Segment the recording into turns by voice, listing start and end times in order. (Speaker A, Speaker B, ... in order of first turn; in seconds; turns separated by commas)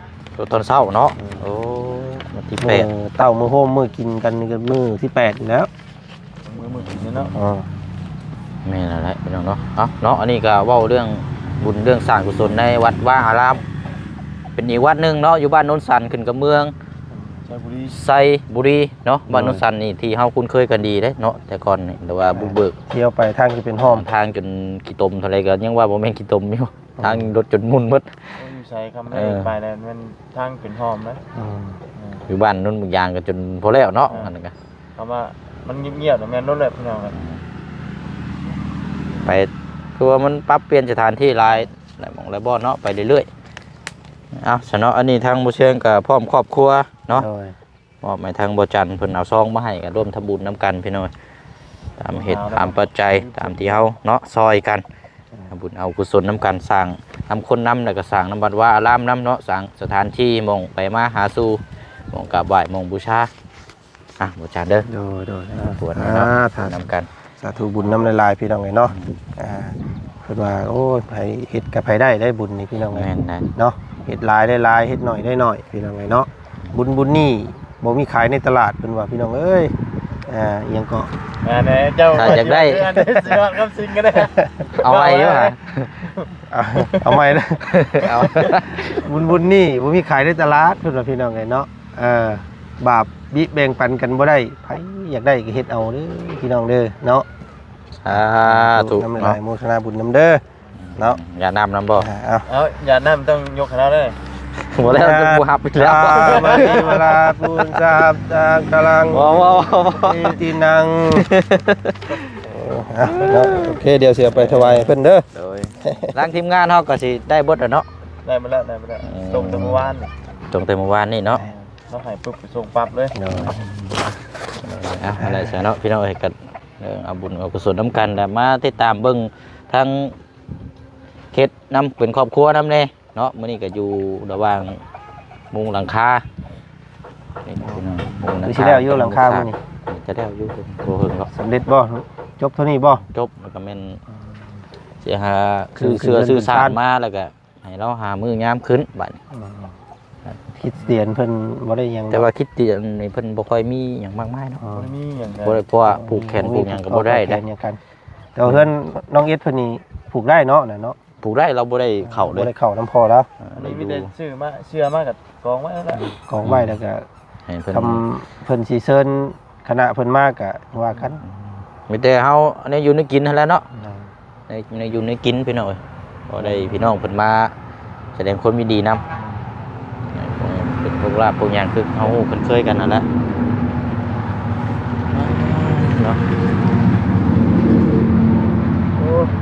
Speaker A: 0.4-2.9, Speaker B: 1.2-1.5, Speaker B: 2.6-5.7, Speaker C: 6.4-7.3, Speaker A: 6.8-7.3, Speaker B: 7.3-7.7, Speaker A: 8.6-13.6, Speaker A: 14.6-16.7, Speaker C: 17.1-18.0, Speaker A: 17.9-22.8, Speaker B: 19.3-19.6, Speaker B: 22.3-24.0, Speaker A: 23.8-28.2, Speaker B: 27.0-27.3, Speaker C: 28.4-31.2, Speaker A: 29.1-29.5, Speaker B: 31.3-31.8, Speaker C: 31.9-32.2, Speaker A: 32.3-34.5, Speaker C: 35.0-37.1, Speaker A: 37.1-37.4, Speaker A: 39.2-43.3, Speaker A: 44.4-47.3, Speaker B: 47.1-47.5, Speaker A: 48.0-51.1, Speaker A: 52.0-54.8, Speaker C: 52.1-53.9, Speaker A: 55.5-61.6, Speaker A: 62.1-63.3, Speaker A: 64.2-64.9, Speaker B: 64.9-66.8, Speaker A: 65.7-67.1, Speaker B: 67.4-79.7, Speaker A: 68.9-69.2, Speaker A: 72.9-73.5, Speaker B: 80.3-81.1, Speaker C: 81.4-86.3, Speaker A: 82.1-83.0, Speaker A: 84.8-85.9, Speaker B: 86.5-88.2, Speaker C: 86.8-87.1, Speaker A: 87.7-88.9, Speaker B: 89.0-97.2, Speaker A: 98.0-99.4, Speaker B: 98.4-100.4, Speaker A: 100.8-102.1, Speaker B: 102.0-102.5, Speaker C: 102.5-104.2, Speaker A: 104.7-107.7, Speaker B: 104.8-111.3, Speaker C: 106.4-106.8, Speaker A: 109.1-110.4, Speaker A: 111.1-112.1, Speaker B: 112.5-115.2, Speaker A: 113.2-113.6, Speaker A: 114.3-117.8, Speaker B: 115.8-116.1, Speaker C: 118.2-120.1, Speaker A: 119.0-119.9, Speaker A: 120.5-121.4, Speaker C: 121.4-123.2, Speaker B: 123.1-123.5, Speaker A: 123.3-124.0, Speaker A: 124.6-130.1, Speaker B: 125.2-125.6, Speaker A: 131.3-134.8, Speaker A: 135.5-136.2, Speaker A: 137.4-141.3, Speaker B: 138.4-139.6, Speaker B: 141.3-143.0, Speaker A: 143.1-144.0, Speaker A: 145.0-149.2, Speaker B: 145.8-146.8, Speaker B: 149.3-149.7, Speaker B: 150.6-152.2, Speaker A: 152.1-154.6, Speaker B: 154.6-154.9, Speaker C: 154.7-155.6, Speaker A: 155.4-157.4, Speaker B: 155.8-157.8, Speaker B: 158.3-160.9, Speaker A: 161.2-162.5, Speaker B: 162.0-163.3, Speaker A: 163.4-164.1, Speaker C: 163.6-166.1, Speaker B: 166.2-167.1, Speaker A: 166.4-166.8, Speaker A: 167.5-168.0, Speaker B: 167.7-171.2, Speaker A: 171.9-173.6, Speaker B: 173.8-174.0, Speaker A: 174.5-177.5, Speaker B: 176.4-176.7, Speaker A: 178.2-179.0, Speaker A: 180.1-183.1, Speaker A: 185.1-186.2, Speaker C: 189.0-189.3